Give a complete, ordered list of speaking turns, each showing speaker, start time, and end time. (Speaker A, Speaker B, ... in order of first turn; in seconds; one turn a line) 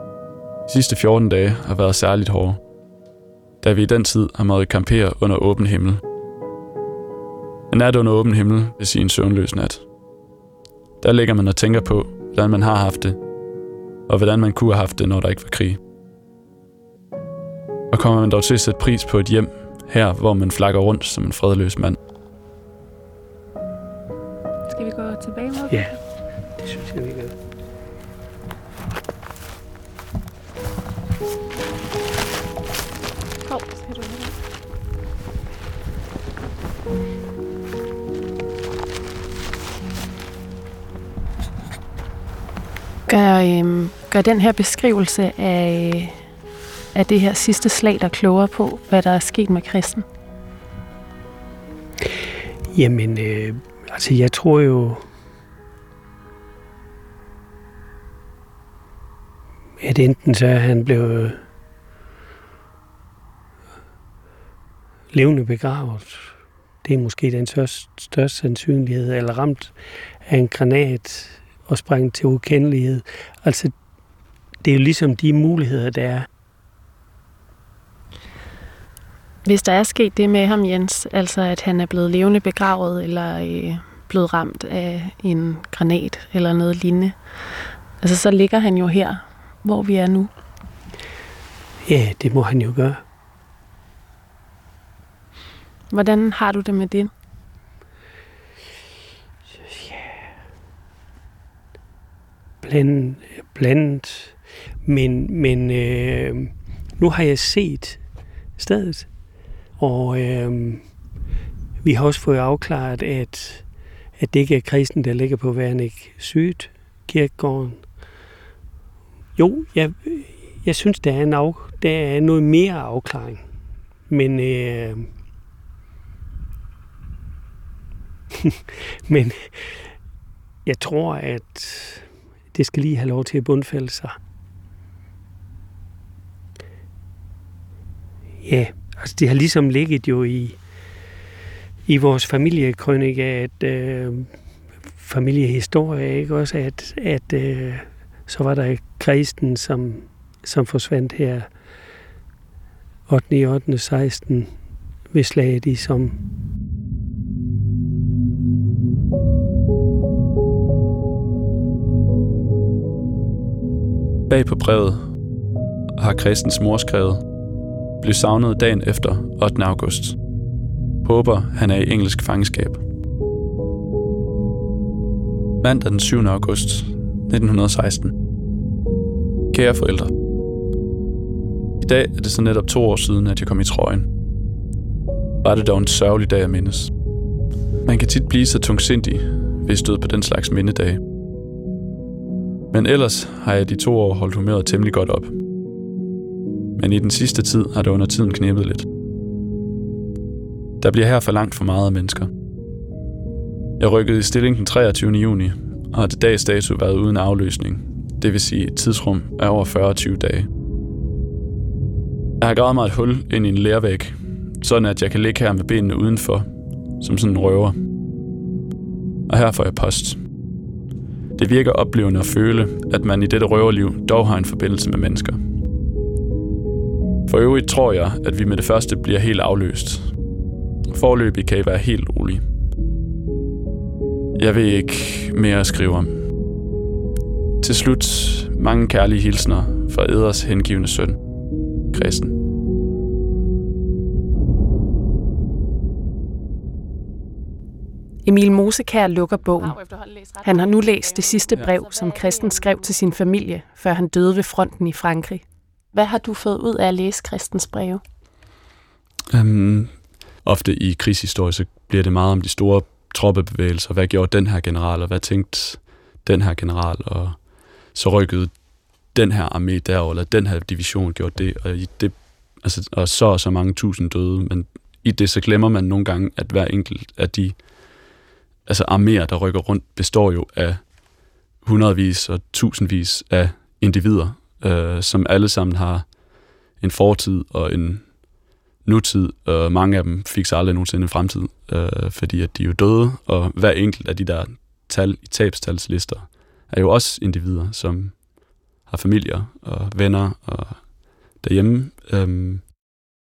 Speaker A: 0.7-2.6
Speaker A: 3.6-6.0
Speaker A: 7.7-9.8
Speaker A: 11.0-13.2
Speaker A: 14.1-15.8
Speaker A: 17.9-22.0
Speaker B: 24.7-26.0
Speaker C: 25.7-26.0
Speaker C: 26.5-27.3
Speaker B: 33.5-34.3
Speaker B: 43.1-46.2
Speaker B: 46.9-50.0
Speaker C: 52.7-55.0
Speaker C: 59.8-61.4
Speaker C: 65.1-66.3
Speaker C: 66.8-69.7
Speaker C: 70.2-73.7
Speaker C: 74.6-76.3
Speaker B: 79.4-87.2
Speaker B: 88.0-90.3
Speaker C: 91.8-93.0
Speaker B: 95.9-97.1
Speaker C: 99.7-100.1
Speaker C: 102.6-108.0
Speaker C: 108.6-109.1
Speaker C: 109.8-110.9
Speaker C: 111.8-113.6
Speaker C: 114.2-117.8
Speaker C: 119.3-123.4
Speaker C: 124.1-125.1
Speaker C: 129.1-129.9
Speaker C: 130.6-134.2
Speaker C: 138.4-140.6
Speaker C: 141.9-144.3
Speaker C: 145.0-151.5
Speaker C: 153.1-154.5
Speaker C: 155.1-156.2
Speaker A: 164.3-165.1
Speaker A: 166.0-167.2
Speaker A: 168.0-170.2
Speaker A: 171.0-172.8
Speaker A: 175.6-178.1
Speaker A: 179.5-180.1
Speaker A: 181.8-184.1
Speaker A: 185.4-186.9
Speaker A: 187.8-191.0
Speaker A: 192.7-195.3
Speaker A: 196.8-198.9
Speaker A: 200.8-202.3
Speaker A: 203.8-210.5
Speaker A: 212.4-216.5
Speaker A: 217.0-217.8
Speaker A: 219.3-220.2
Speaker A: 221.3-225.4
Speaker A: 227.3-230.1
Speaker A: 230.9-232.4
Speaker A: 234.3-236.2
Speaker A: 237.6-241.2
Speaker A: 241.9-242.3
Speaker B: 248.2-258.0
Speaker A: 259.3-267.4
Speaker A: 267.9-268.5
Speaker A: 269.1-277.6
Speaker A: 278.6-280.9
Speaker A: 281.6-286.1
Speaker A: 286.8-288.3
Speaker A: 288.8-298.3
Speaker A: 298.8-302.7